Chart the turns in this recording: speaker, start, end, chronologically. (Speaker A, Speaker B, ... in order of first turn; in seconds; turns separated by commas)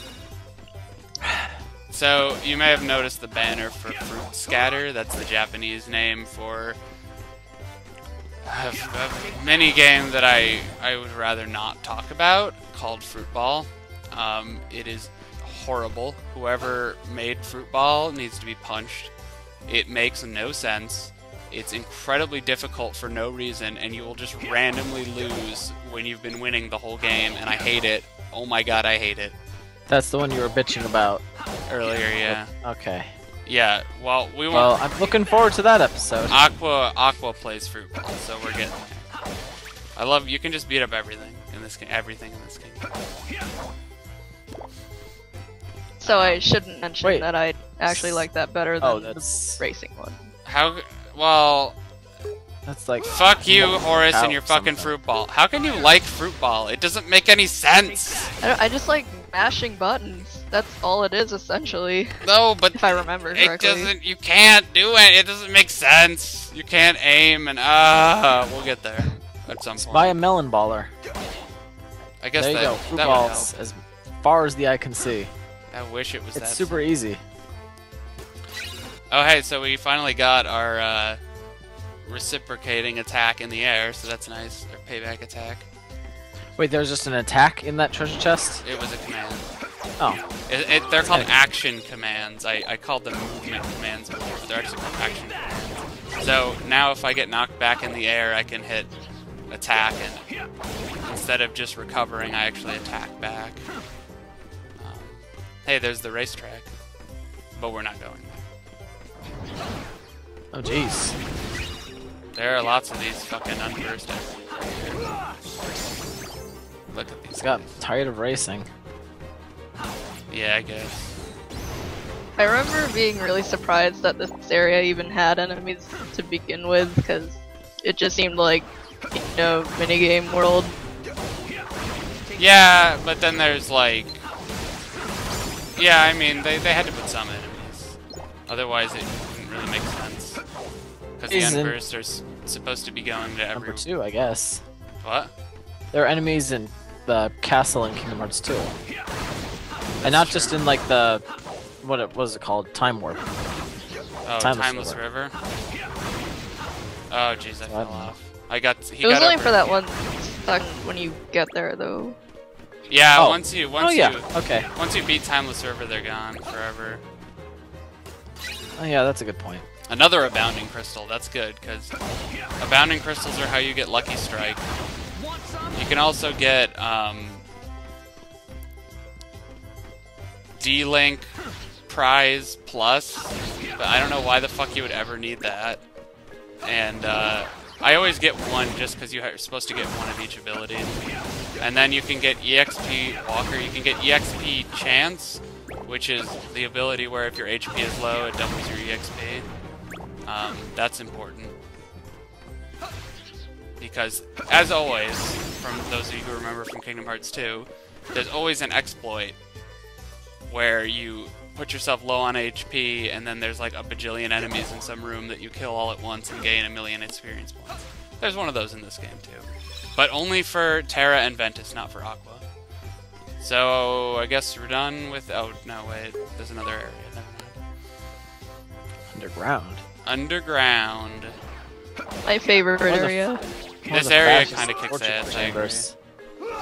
Speaker A: 1.9-6.8, Speaker A: 8.4-19.1, Speaker A: 19.7-29.4, Speaker B: 29.9-31.2, Speaker A: 31.7-32.5, Speaker B: 32.3-33.1, Speaker A: 33.5-34.8, Speaker B: 34.5-36.4, Speaker A: 36.3-39.1, Speaker A: 40.0-42.9, Speaker C: 46.0-50.3, Speaker A: 46.0-46.4, Speaker B: 47.9-48.2, Speaker B: 48.8-49.6, Speaker A: 50.5-51.8, Speaker B: 52.7-55.0, Speaker A: 53.0-58.3, Speaker C: 58.4-62.2, Speaker A: 62.2-70.2, Speaker C: 62.8-63.9, Speaker B: 69.8-70.9, Speaker A: 72.2-73.5, Speaker B: 72.4-75.3, Speaker A: 75.7-76.9, Speaker B: 76.3-77.2, Speaker A: 79.1-81.2, Speaker A: 82.0-85.7, Speaker B: 86.6-88.6, Speaker A: 88.6-89.5, Speaker A: 90.5-98.9, Speaker B: 91.0-91.3, Speaker A: 99.5-100.3, Speaker A: 101.0-103.7, Speaker A: 104.8-106.7, Speaker A: 107.5-108.4, Speaker B: 110.5-111.2, Speaker A: 112.3-115.0, Speaker A: 116.9-117.8, Speaker B: 117.4-118.7, Speaker A: 120.3-121.2, Speaker C: 122.4-130.8, Speaker A: 132.3-134.2, Speaker A: 135.8-140.4, Speaker A: 141.2-143.9, Speaker B: 141.3-141.8, Speaker B: 143.6-144.6, Speaker A: 145.0-145.3, Speaker B: 145.9-148.8, Speaker A: 150.0-150.6, Speaker B: 150.0-151.2, Speaker B: 151.8-153.2, Speaker A: 154.2-155.3, Speaker B: 154.4-155.0, Speaker A: 157.1-159.6, Speaker B: 157.7-158.1, Speaker C: 159.0-162.2, Speaker A: 162.9-167.0, Speaker B: 163.2-164.7, Speaker B: 168.8-169.7, Speaker A: 169.9-171.9, Speaker A: 172.6-174.7, Speaker A: 175.7-177.4, Speaker A: 180.6-181.3, Speaker A: 181.9-185.8, Speaker A: 186.6-191.0, Speaker A: 191.6-199.5, Speaker A: 200.3-201.6, Speaker A: 203.8-209.4, Speaker A: 210.5-222.4, Speaker A: 223.4-227.6, Speaker B: 229.1-229.8, Speaker A: 230.1-231.4, Speaker C: 232.2-233.3, Speaker B: 232.8-235.9, Speaker A: 233.9-235.9